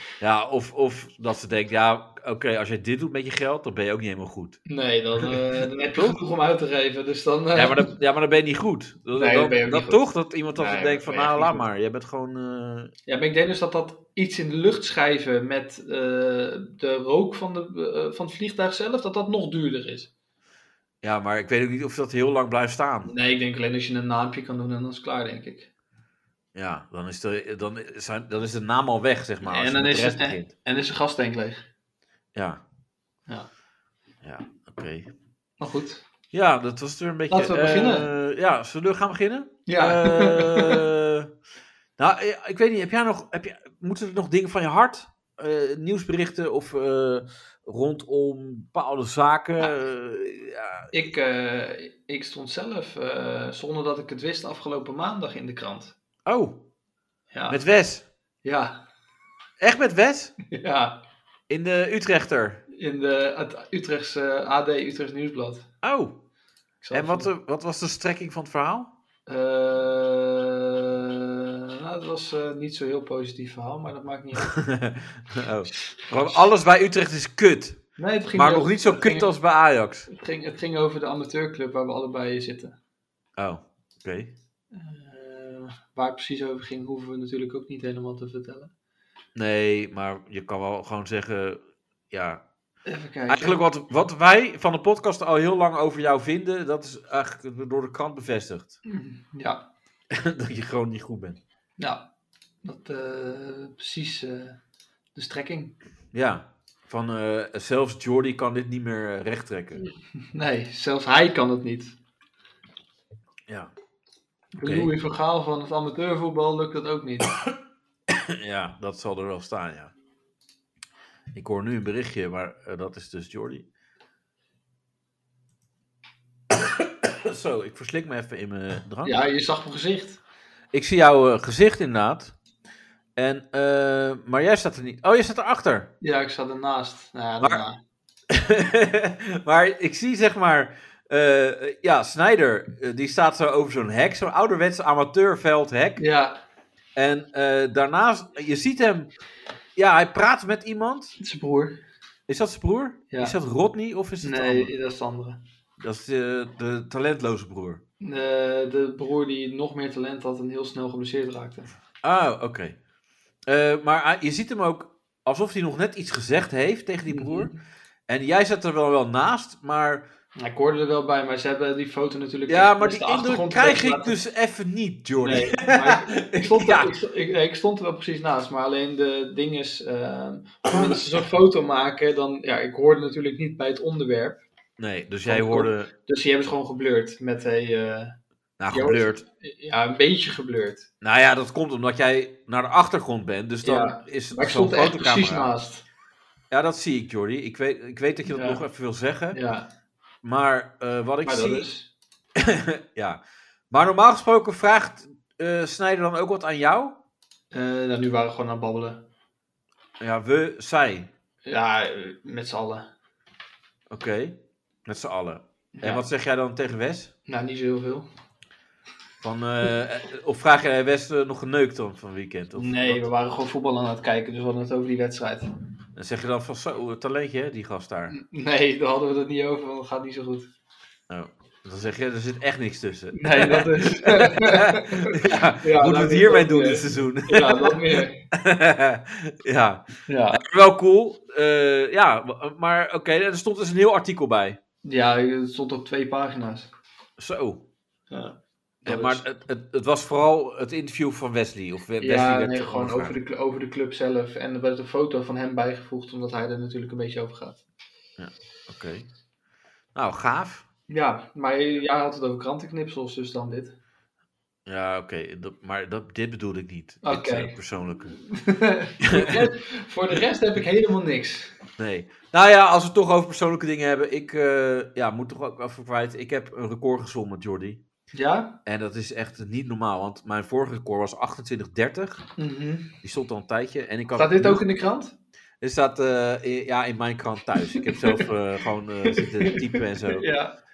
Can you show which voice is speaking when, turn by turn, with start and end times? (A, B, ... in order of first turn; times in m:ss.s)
0:00.2-0:04.6 A
0:04.6-0:07.9 B
0:07.5-0:12.9 A
0:09.1-0:10.0 B
0:10.6-0:11.6 B
0:13.1-0:20.1 B
0:21.0-0:23.1 A
0:23.0-0:25.7 B
0:26.5-0:30.5 A
0:29.4-0:31.6 B
0:32.3-0:32.6 A
0:34.2-0:35.1 A
0:35.6-0:36.0 B
0:36.3-0:41.3 A
0:37.3-0:38.1 B
0:39.7-0:40.8 B
0:42.0-0:50.9 A
0:50.9-0:55.9 B
0:56.2-0:56.6 A
0:57.3-0:57.6 B
0:57.5-0:58.0 A
0:58.4-0:58.8 B
0:59.6-1:00.3 A
1:00.5-1:01.0 B
1:01.5-1:02.6 A
1:02.7-1:05.7 B
1:05.8-1:06.2 A
1:06.8-1:07.3 B
1:06.9-1:08.9 A
1:09.3-1:14.6 B
1:14.4-1:17.8 A
1:18.0-1:19.3 B
1:18.3-1:20.1 A
1:20.1-1:22.8 B
1:23.4-1:24.3 A
1:24.7-1:28.7 B
1:29.4-1:31.6 A
1:32.1-1:32.4 A
1:32.8-1:33.6 B
1:33.3-1:38.8 A
1:38.8-1:39.7 B
1:40.1-1:41.4 A
1:41.8-1:42.1 B
1:42.6-1:44.6 B
1:45.1-1:45.7 B
1:46.1-1:49.8 A
1:50.3-1:52.0 B
1:54.5-1:57.3 B
1:54.6-1:54.9 A
1:58.1-1:59.9 A
2:01.3-2:03.7 A
2:06.5-2:09.1 A
2:09.0-2:10.2 B
2:10.7-2:12.3 A
2:13.2-2:15.9 A
2:16.0-2:17.8 B
2:18.3-2:26.0 A
2:26.0-2:26.4 B
2:27.0-2:29.1 A
2:29.8-2:31.1 A
2:31.2-2:31.8 B
2:32.3-2:34.7 A
2:34.2-2:35.4 B
2:35.8-2:37.8 A
2:38.0-2:41.7 B
2:42.0-2:42.8 A
2:43.5-2:47.5 A
2:47.1-2:47.6 B
2:48.1-2:50.1 A
2:50.4-2:54.2 B
2:52.5-2:56.9 A
2:55.2-3:04.4 B
3:04.8-3:05.9 A
3:05.3-3:08.2 B
3:08.6-3:09.2 A
3:08.7-3:10.9 B
3:11.0-3:15.5 A
3:13.6-3:15.8 B
3:16.5-3:19.4 A
3:18.3-3:18.6 B
3:19.3-3:19.7 B
3:20.2-3:21.7 A
3:21.2-3:21.9 B
3:22.4-3:27.0 A
3:27.5-3:29.0 B
3:30.0-3:31.1 A
3:31.4-3:32.9 B
3:33.9-3:37.1 A
3:35.8-3:36.0 B
3:37.3-3:38.1 B
3:39.2-3:43.1 A
3:42.6-3:45.4 B
3:45.9-3:48.1 A
3:48.1-3:50.5 B
3:51.1-4:04.6 A
3:53.1-3:58.2 B
4:00.1-4:00.4 B
4:04.8-4:06.7 B
4:07.2-4:07.6 A
4:08.1-4:09.2 B
4:08.8-4:13.1 A
4:12.0-4:17.6 B
4:18.2-4:19.1 A
4:19.9-4:20.6 A
4:20.9-4:23.7 B
4:24.7-4:28.2 A
4:27.0-4:27.5 B
4:28.1-4:31.5 B
4:29.0-4:29.5 A
4:31.8-4:37.8 A
4:38.1-4:38.6 B
4:38.6-4:42.3 A
4:42.4-4:42.9 B
4:43.0-4:44.6 A
4:44.1-4:45.1 B
4:45.6-4:50.3 A
4:49.1-4:50.6 B